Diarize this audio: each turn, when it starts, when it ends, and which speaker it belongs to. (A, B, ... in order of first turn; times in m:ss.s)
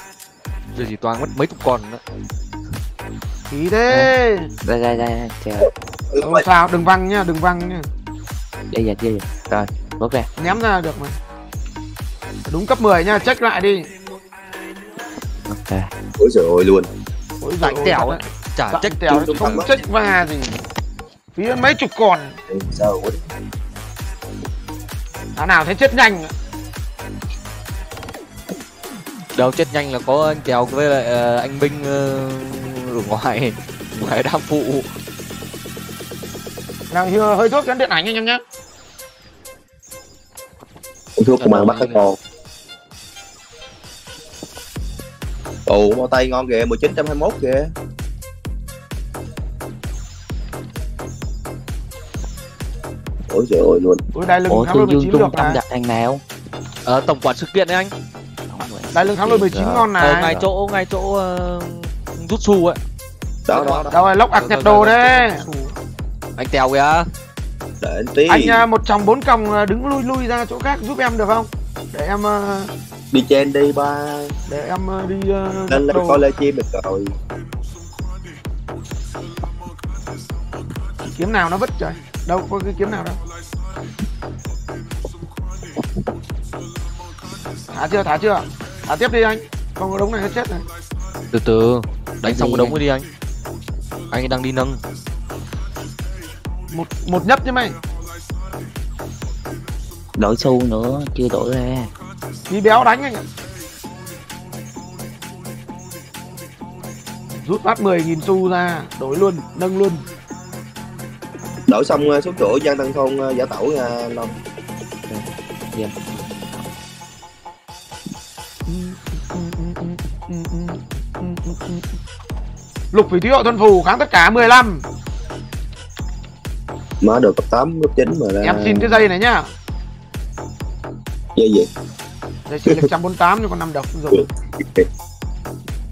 0:00.7-0:02.0 A
0:03.5-0:04.5 B
0:04.6-0:05.7 C
0:05.6-0:06.4 D
0:06.2-0:07.9 B
0:08.7-0:10.3 C
0:10.4-0:11.2 B
0:12.5-0:13.9 B
0:15.5-0:15.9 C
0:16.2-0:16.9 D
0:17.4-0:20.6 B
0:17.6-0:19.6 A
0:19.1-0:19.8 D
0:21.4-0:22.4 B
0:22.5-0:23.2 D
0:25.4-0:26.3 B
0:29.3-0:34.9 A
0:36.9-0:38.4 B
0:41.2-0:42.2 D
0:41.4-0:42.1 A
0:45.7-0:47.7 D
0:53.3-0:54.0 D
0:54.1-0:55.6 B
0:54.5-0:56.2 C
0:56.8-0:57.9 A
0:58.5-1:00.4 C
0:58.9-1:00.4 B
1:00.0-1:02.8 A
1:03.5-1:03.9 D
1:03.9-1:05.8 B
1:04.3-1:05.4 A
1:06.4-1:07.1 A
1:07.8-1:08.6 D
1:08.3-1:12.7 B
1:13.1-1:14.3 D
1:14.5-1:16.2 B
1:15.7-1:17.2 D
1:21.0-1:23.2 B
1:27.7-1:30.6 B
1:31.3-1:33.0 A
1:32.2-1:32.8 C
1:34.1-1:34.8 A
1:36.7-1:37.8 B
1:40.2-1:41.9 C
1:42.5-1:43.2 B
1:47.4-1:50.0 B
1:51.7-1:54.3 D
1:55.1-1:56.1 C
1:58.6-2:01.9 B
2:02.9-2:04.8 B
2:07.0-2:09.1 D
2:08.4-2:09.5 B
2:11.4-2:11.7 D
2:12.5-2:14.3 B
2:14.1-2:14.9 D